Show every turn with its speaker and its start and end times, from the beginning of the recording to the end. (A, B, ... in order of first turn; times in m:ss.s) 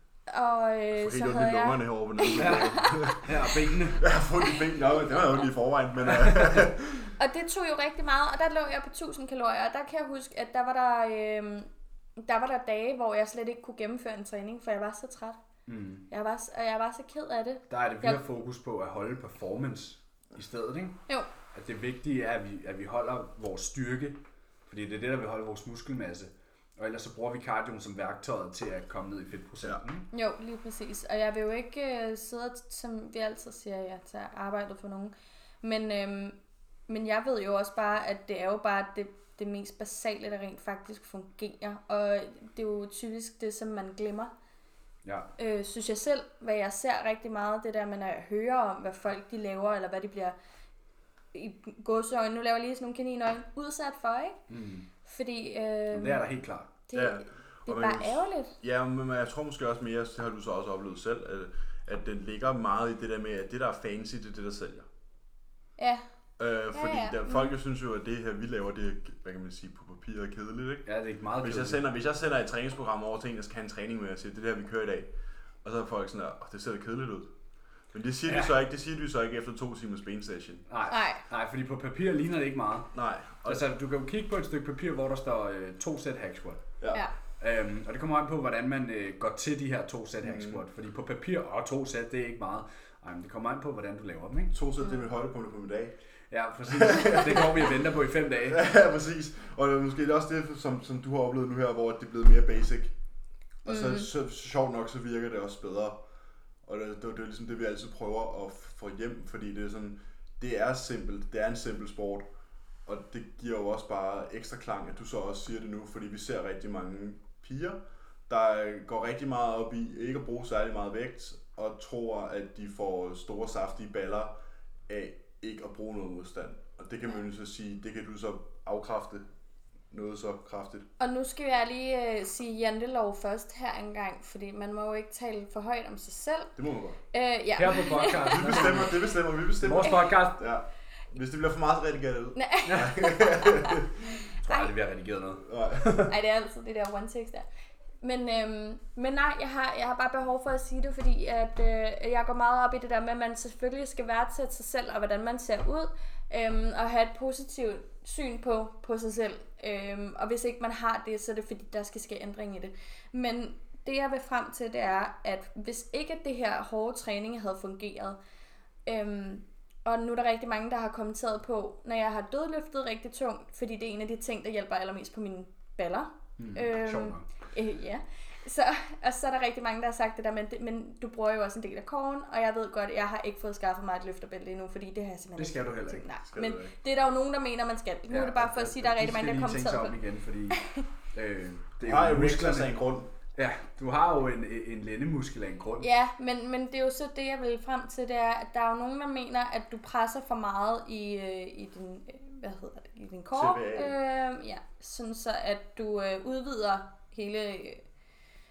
0:00.3-0:03.2 A
0:01.0-0:03.2 B
0:02.4-0:04.0 C
0:04.0-0:07.2 B
0:06.1-0:06.7 C
0:07.2-0:15.4 A
0:15.7-0:16.0 C
0:16.1-0:18.2 A
0:17.7-0:21.0 C
0:21.5-0:30.1 C
0:30.1-0:36.4 A
0:36.9-0:44.3 A
0:45.0-0:45.3 C
0:45.4-0:50.4 A
0:51.3-0:54.4 A
0:54.5-0:54.9 C
0:55.0-0:56.2 A
0:55.9-0:56.7 C
0:56.9-0:58.5 A
0:56.9-1:04.9 B
1:05.8-1:06.0 A
1:06.4-1:10.9 B
1:06.7-1:07.5 A
1:10.9-1:11.8 C
1:11.4-1:15.1 B
1:15.6-1:17.3 B
1:17.9-1:20.6 B
1:20.7-1:26.8 C
1:20.9-1:21.2 A
1:22.9-1:23.6 B
1:26.8-1:27.1 B
1:27.4-1:34.6 C
1:30.2-1:30.6 B
1:34.5-1:36.0 B
1:36.3-1:38.6 C
1:36.7-1:37.7 B
1:38.5-1:42.9 B
1:43.6-1:46.0 B
1:43.7-1:44.1 A
1:46.6-1:52.3 B
1:52.9-2:04.3 B
2:04.9-2:09.2 B
2:09.9-2:10.9 B
2:11.0-2:16.5 A
2:16.6-2:17.0 B
2:17.1-2:18.9 A
2:17.6-2:19.0 C
2:18.3-2:23.9 B
2:19.6-2:20.4 C
2:19.8-2:20.1 A
2:22.4-2:23.8 A
2:22.6-2:22.9 C
2:24.4-2:26.1 C
2:24.4-2:24.7 A
2:25.4-2:26.1 B
2:26.1-2:27.5 A
2:28.0-2:48.2 A
2:48.9-3:10.0 A
2:56.4-2:57.3 C
3:05.4-3:06.0 C
3:06.3-3:06.7 B
3:08.1-3:10.6 C
3:10.5-3:10.8 A
3:11.1-3:12.7 C
3:11.8-3:13.1 B
3:13.4-3:15.9 C
3:15.8-3:27.8 A
3:23.3-3:24.0 B